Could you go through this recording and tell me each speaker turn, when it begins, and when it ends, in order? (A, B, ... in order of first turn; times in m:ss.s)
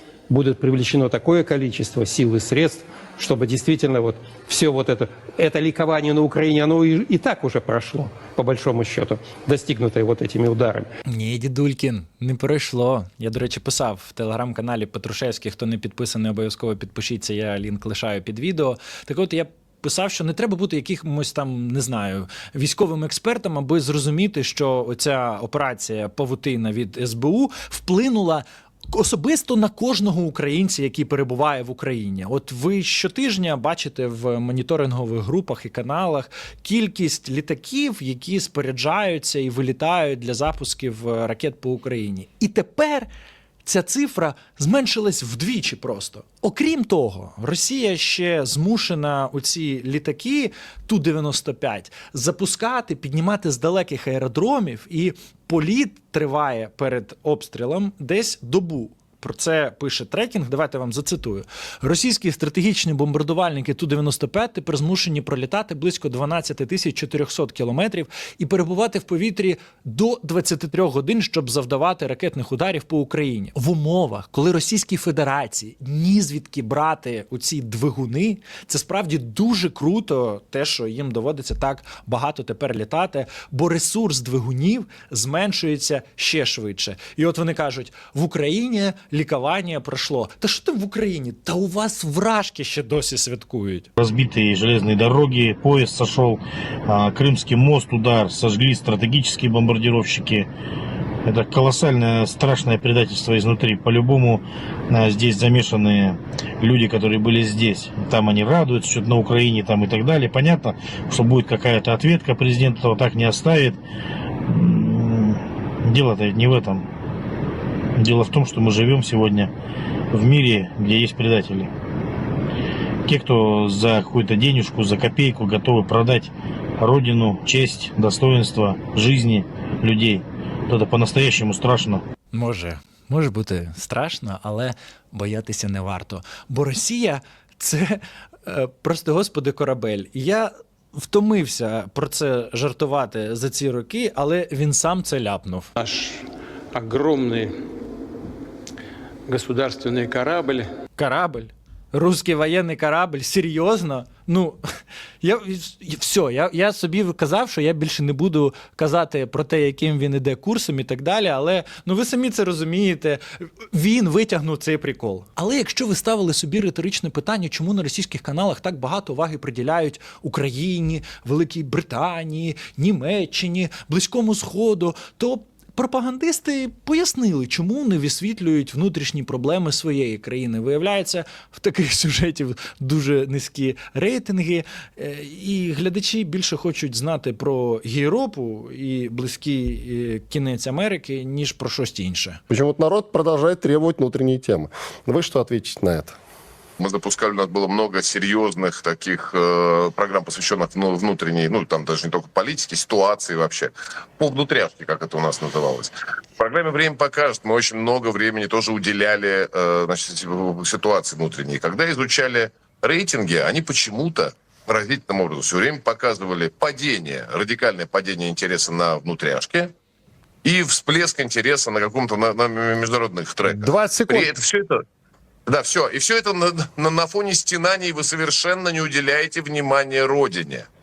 0:00.3-0:10.9 A
0:11.1-0:43.1 B
0:43.6-1:33.9 B
1:34.0-1:40.5 C
1:41.2-1:53.8 C
1:54.5-1:56.8 C
1:58.0-1:59.5 C
2:00.1-2:01.7 C
2:03.1-2:12.0 C
2:12.3-2:25.7 B
2:25.8-2:26.2 D
2:26.7-2:27.6 D
2:29.3-2:30.7 D
2:31.0-2:34.6 B
2:35.2-3:12.4 B
3:12.5-3:16.2 E
3:16.8-3:39.7 F
3:40.4-3:44.8 F
3:43.8-3:44.1 E
3:45.5-3:50.7 F